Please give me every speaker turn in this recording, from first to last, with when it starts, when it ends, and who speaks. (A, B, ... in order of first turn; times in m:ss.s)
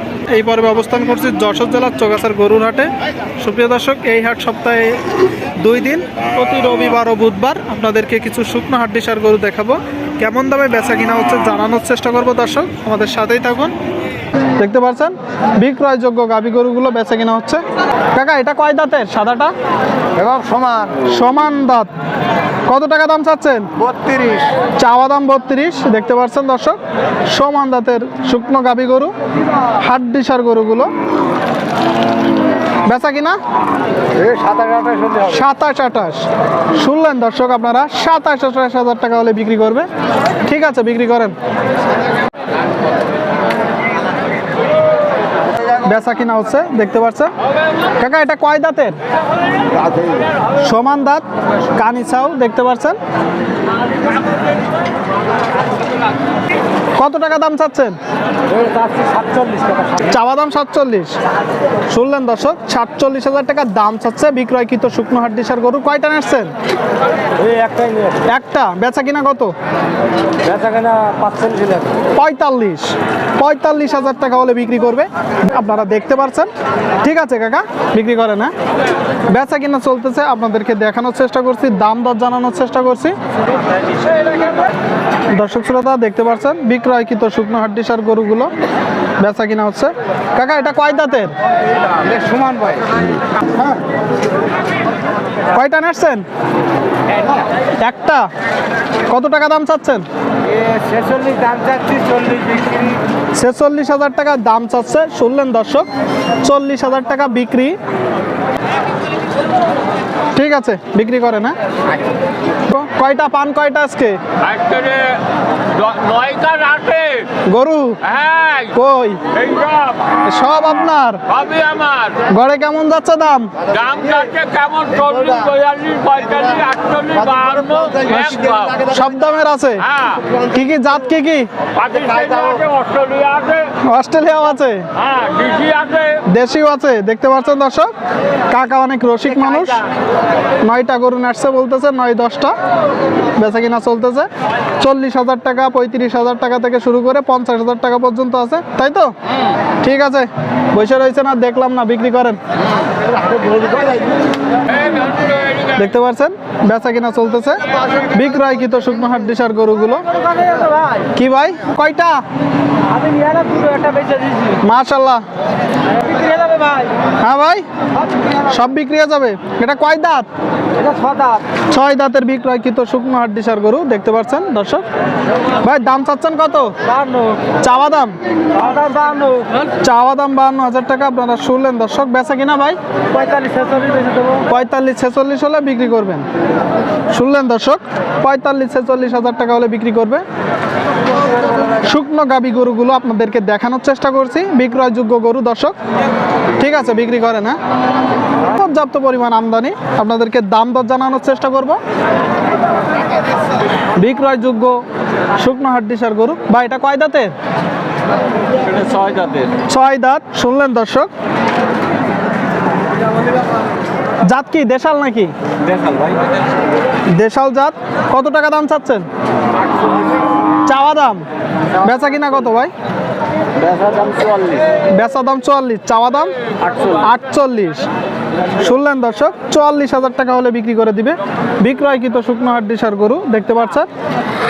0:00.3-0:13.7 A
0:14.6-0:19.5 A
0:20.2-0:21.0 B
0:21.0-0:21.9 A
0:22.7-0:23.7 A
0:23.9-0:24.5 B
0:24.8-0:29.1 A
0:29.8-0:30.9 A
0:32.8-0:33.4 A
0:34.2-0:35.3 B
0:35.2-0:39.9 A
0:40.4-0:41.4 A
0:45.8-0:47.3 A
0:48.0-0:49.0 A
0:50.6-0:53.0 A
0:57.0-0:58.0 A
0:58.5-1:00.1 B
1:00.0-1:01.2 A
1:01.9-1:06.5 A
1:07.4-1:08.2 B
1:08.2-1:09.5 A
1:10.4-1:11.9 B
1:12.2-1:16.5 A
1:17.0-1:18.5 A
1:19.3-1:23.2 A
1:25.3-1:28.5 A
1:29.2-1:31.3 A
1:32.0-1:33.0 B
1:35.5-1:36.2 A
1:37.8-1:38.3 A
1:39.1-1:40.0 A
1:40.5-1:42.8 B
1:43.3-1:45.9 A
1:46.4-1:47.8 A
1:50.3-1:51.6 A
1:52.7-1:54.2 A
1:54.4-1:57.3 C
1:57.4-1:59.3 A
1:58.1-1:58.7 C
1:59.3-2:00.0 C
2:00.2-2:01.2 A
2:01.3-2:02.2 C
2:02.2-2:03.7 A
2:03.7-2:08.8 C
2:08.8-2:09.9 A
2:10.4-2:11.5 A
2:11.7-2:13.7 C
2:13.8-2:14.9 A
2:15.0-2:16.2 C
2:16.2-2:17.9 A
2:18.5-2:19.8 A
2:20.6-2:22.6 A
2:23.3-2:24.3 A
2:24.8-2:29.1 A
2:29.8-2:32.4 A
2:33.3-2:33.9 B
2:35.7-2:40.1 A
2:40.2-2:41.0 B
2:41.1-2:42.2 A
2:42.9-2:44.6 B
2:44.6-2:45.2 A
2:45.9-2:46.9 B
2:47.2-2:47.6 A
2:48.4-2:50.3 A
2:50.8-2:51.4 B
2:51.7-2:54.8 A
2:55.6-2:56.8 A
2:56.9-2:57.4 B
2:57.6-2:58.2 A
2:58.5-2:59.5 B
2:59.8-3:02.8 A
3:03.1-3:04.4 B
3:04.4-3:06.2 A
3:07.1-3:10.2 A
3:11.7-3:15.8 A
3:16.6-3:17.6 A
3:18.5-3:21.8 A
3:23.9-3:24.8 A
3:25.4-3:27.3 A
3:28.6-3:29.5 C
3:29.6-3:31.1 A
3:34.2-3:35.3 A
3:37.1-3:39.1 A
3:40.6-3:41.2 A
3:41.8-3:42.7 A
3:43.6-3:44.6 B
3:44.9-3:47.9 A
3:48.6-3:53.9 A